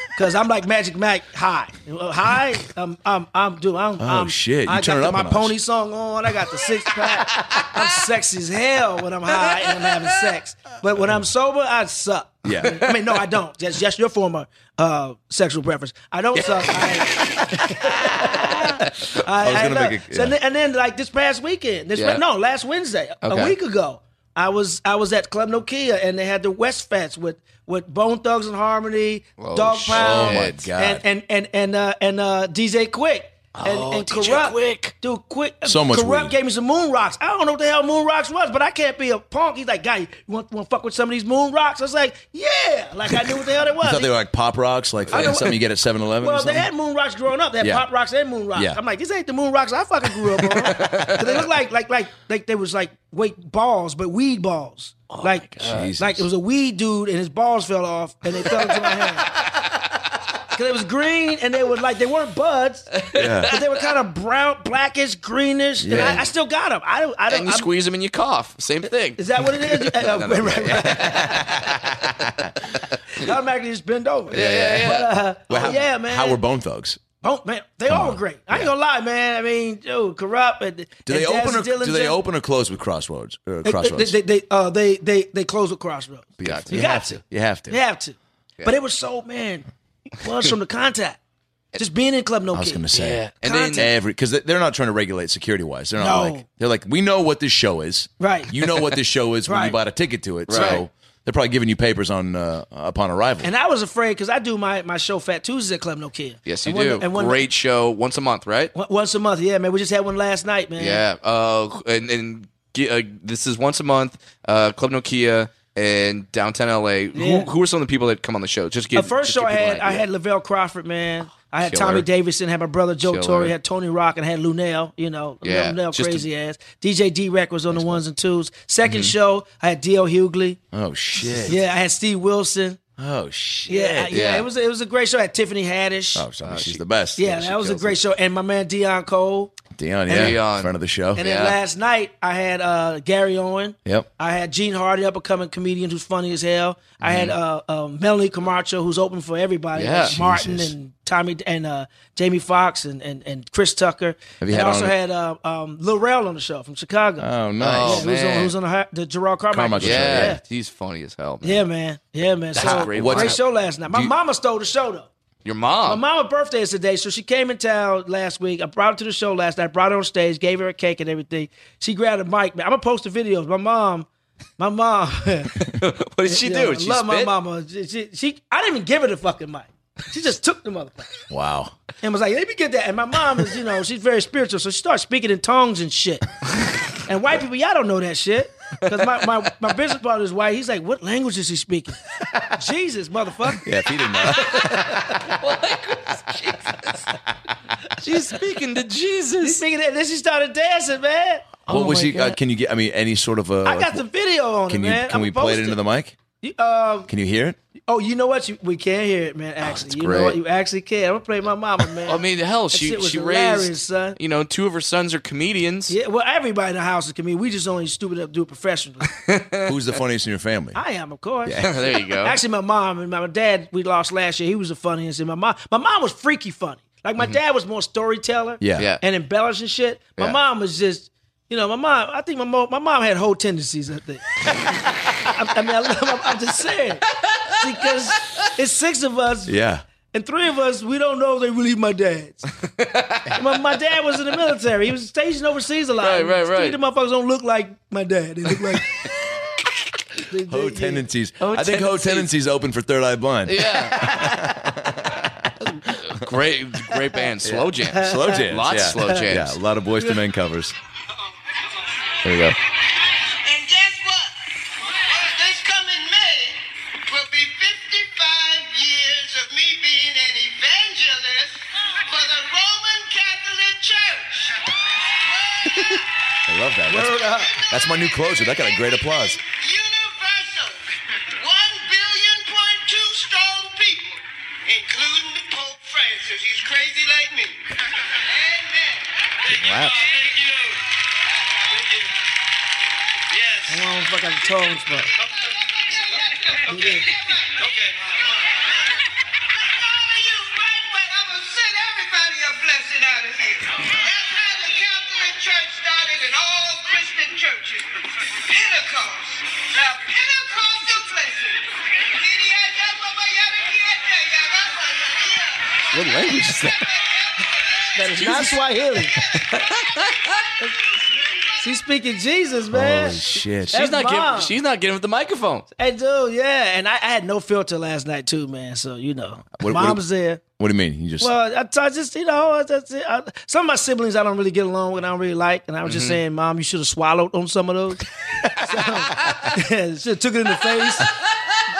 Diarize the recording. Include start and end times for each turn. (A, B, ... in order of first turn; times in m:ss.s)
0:00.1-0:44.1 A
0:04.0-0:05.5 B
0:12.4-0:12.9 B
0:16.8-0:17.4 C
0:19.1-0:20.3 B
0:22.0-0:22.2 C
0:23.2-0:23.5 C
0:29.4-0:30.6 C
0:29.9-0:31.0 B
0:33.5-0:34.9 C
0:35.6-0:36.3 B
0:43.8-0:46.7 B
0:45.1-0:45.6 A
0:46.2-0:59.3 A
0:47.6-0:47.8 B
0:48.5-0:48.8 B
0:50.7-0:51.2 C
0:55.1-0:55.9 C
0:55.6-0:56.2 B
1:00.5-1:07.7 A
1:03.0-1:03.4 C
1:03.1-1:03.5 B
1:05.8-1:06.3 B
1:07.3-1:11.4 C
1:09.2-1:11.5 A
1:10.7-1:12.5 B
1:13.1-1:16.4 A
1:14.3-1:15.1 C
1:14.4-1:14.9 B
1:15.5-1:17.0 B
1:17.2-1:22.2 A
1:17.9-1:18.7 B
1:21.0-1:24.2 B
1:23.6-1:31.2 A
1:26.4-1:27.8 B
1:26.4-1:26.7 C
1:31.8-1:32.8 A
1:32.5-1:33.2 B
1:32.9-1:33.8 C
1:33.4-1:33.9 A
1:33.8-1:43.5 B
1:36.0-1:36.4 A
1:38.2-1:38.5 A
1:39.4-1:39.8 A
1:40.5-1:40.8 C
1:40.5-1:40.8 A
1:43.4-1:47.4 A
1:46.4-1:48.7 C
1:48.7-1:51.0 A
1:50.8-2:00.0 C
1:57.1-1:57.5 A
1:58.9-2:10.6 A
2:01.6-2:02.1 C
2:03.0-2:03.5 C
2:05.4-2:06.2 C
2:07.7-2:08.0 B
2:08.9-2:09.1 C
2:10.7-2:11.6 B
2:11.4-2:12.8 A
2:13.0-2:14.1 B
2:13.7-2:16.2 A
2:14.1-2:14.5 C
2:16.1-2:18.0 B
2:16.4-2:16.8 C
2:17.2-2:19.6 A
2:19.7-2:21.2 B
2:20.1-2:21.6 C
2:21.1-2:37.3 A
2:29.8-2:30.1 C
2:30.1-2:30.7 B
2:34.4-2:34.9 B
2:37.2-2:38.1 B
2:37.6-2:38.5 C
2:37.8-2:40.4 A
2:39.5-2:40.4 B
2:39.8-2:41.6 C
2:41.4-2:45.1 A
2:42.5-2:43.4 C
2:42.6-2:44.1 B
2:45.4-2:46.0 C
2:45.8-2:54.1 A
2:54.6-2:55.5 A
2:55.6-2:57.3 C
2:56.2-3:01.1 A
3:01.3-3:01.7 B
3:02.0-3:06.3 A
3:07.0-3:13.7 A
3:13.6-3:15.2 B
3:14.3-3:15.0 A
3:14.3-3:17.0 C
3:18.0-3:19.6 C
3:19.4-3:21.7 A
3:21.7-3:22.4 C
3:21.7-3:24.0 B
3:23.6-3:25.8 A
3:24.7-3:26.2 B
3:26.4-3:27.1 A
3:27.1-3:27.6 B
3:27.9-3:34.2 A
3:29.6-3:30.4 C
3:32.0-3:35.9 C
3:35.9-3:39.1 A
3:39.3-3:39.6 C
3:39.6-3:40.8 B
3:40.7-3:54.2 A
3:41.4-3:41.7 B
3:41.6-3:42.4 C
3:48.6-3:48.9 B
3:55.2-3:59.5 A
3:59.5-3:59.8 B
4:00.1-4:02.5 A
4:02.8-4:03.3 C
4:03.3-4:08.9 A
4:06.0-4:06.8 C
4:10.3-4:11.0 A
4:10.5-4:16.0 B
4:11.4-4:12.3 C
4:13.4-4:14.3 C
4:15.9-4:19.6 C
4:17.4-4:20.7 B
4:17.9-4:18.5 A
4:22.2-4:22.5 B
4:23.3-4:34.6 D
4:35.2-4:36.0 D
4:36.5-4:39.4 B
4:36.9-4:37.5 A
4:37.2-4:50.8 D
4:49.5-4:50.0 C
4:51.5-4:52.3 D
4:53.3-4:53.8 D
4:53.7-4:55.1 A
4:55.1-4:58.7 D
4:56.7-4:57.1 A
4:59.5-5:16.0 D
5:15.9-5:16.8 C
5:16.8-5:18.2 D
5:18.0-5:19.2 A
5:18.2-5:18.6 C
5:19.1-5:20.0 C
5:21.6-5:24.5 A
5:22.7-5:23.7 B
5:23.7-5:25.6 C
5:25.8-5:30.4 A
5:29.4-5:30.0 B
5:30.6-5:31.3 B
5:31.2-5:41.1 A
5:35.8-5:36.2 C